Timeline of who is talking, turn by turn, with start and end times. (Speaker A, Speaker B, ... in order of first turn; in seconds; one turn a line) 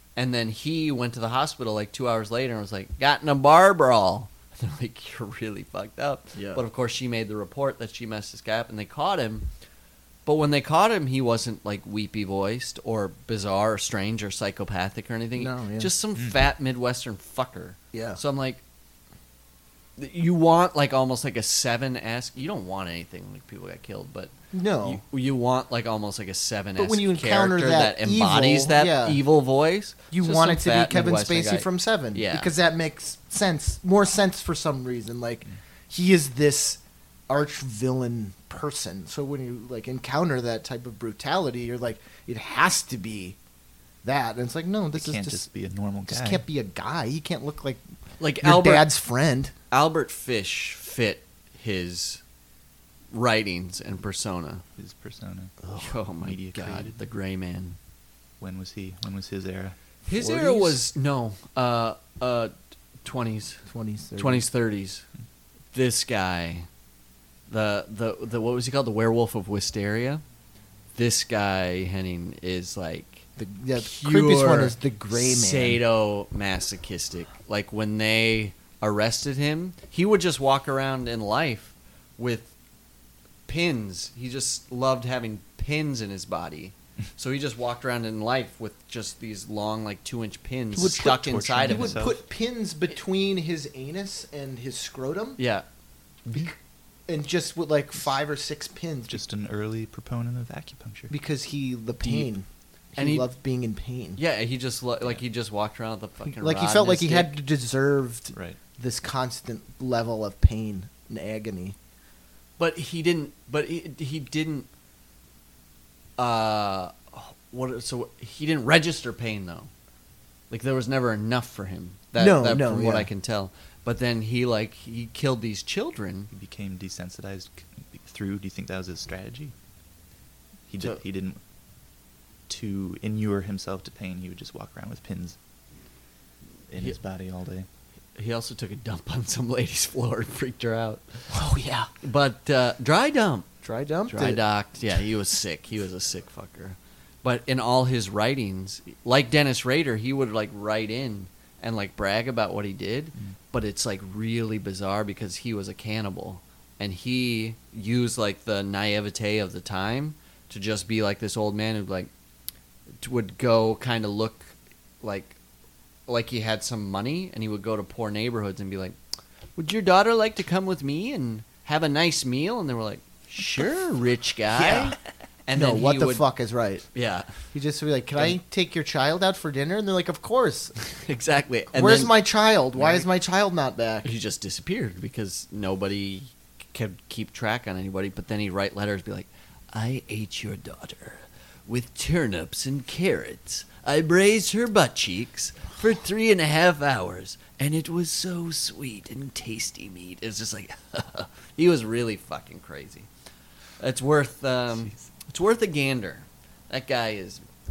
Speaker A: 0.1-9.5
Speaker B: 6.3-6.6
Speaker A: 10.2-18.6
Speaker B: 15.3-15.9
Speaker B: 17.9-18.2
Speaker A: 20.0-32.5
Speaker B: 24.5-25.0
Speaker B: 26.8-29.2
Speaker B: 30.1-43.4
Speaker B: 44.0-45.5
Speaker C: 44.9-46.4
Speaker B: 46.1-47.8
Speaker A: 48.2-48.9
Speaker B: 48.4-49.5
Speaker A: 49.7-52.2
Speaker A: 53.1-54.6
Speaker C: 54.8-57.0
Speaker A: 55.7-57.8
Speaker C: 58.4-59.8
Speaker A: 60.0-63.6
Speaker B: 60.1-60.8
Speaker B: 63.6-64.4
Speaker A: 64.2-65.0
Speaker A: 65.7-66.7
Speaker A: 67.5-70.2
Speaker A: 70.9-82.5
Speaker B: 73.4-75.8
Speaker A: 83.5-92.0
Speaker C: 90.8-92.2
Speaker B: 91.6-95.4
Speaker A: 95.4-95.7
Speaker A: 96.2-96.5
Speaker B: 97.1-99.2
Speaker C: 99.1-101.1
Speaker B: 101.1-104.2
Speaker A: 102.0-102.3
Speaker A: 103.0-103.3
Speaker A: 104.2-107.3
Speaker B: 106.3-111.8
Speaker A: 112.6-114.7
Speaker A: 116.2-119.7
Speaker A: 120.5-126.3
Speaker B: 122.2-123.1
Speaker C: 126.3-129.5
Speaker C: 130.7-131.4
Speaker C: 132.5-135.4
Speaker C: 136.7-137.7
Speaker A: 138.1-141.3
Speaker B: 141.3-141.9
Speaker A: 142.0-143.5
Speaker B: 143.6-144.4
Speaker A: 144.1-162.1
Speaker A: 163.0-165.3
Speaker A: 166.1-168.9
Speaker A: 169.6-174.9
Speaker B: 174.5-174.9
Speaker A: 175.5-176.2
Speaker B: 175.5-176.8
Speaker A: 176.9-177.3
Speaker B: 177.5-180.7
Speaker A: 180.9-182.1
Speaker B: 181.7-184.1
Speaker A: 182.7-183.1
Speaker A: 184.0-203.1
Speaker A: 203.8-207.4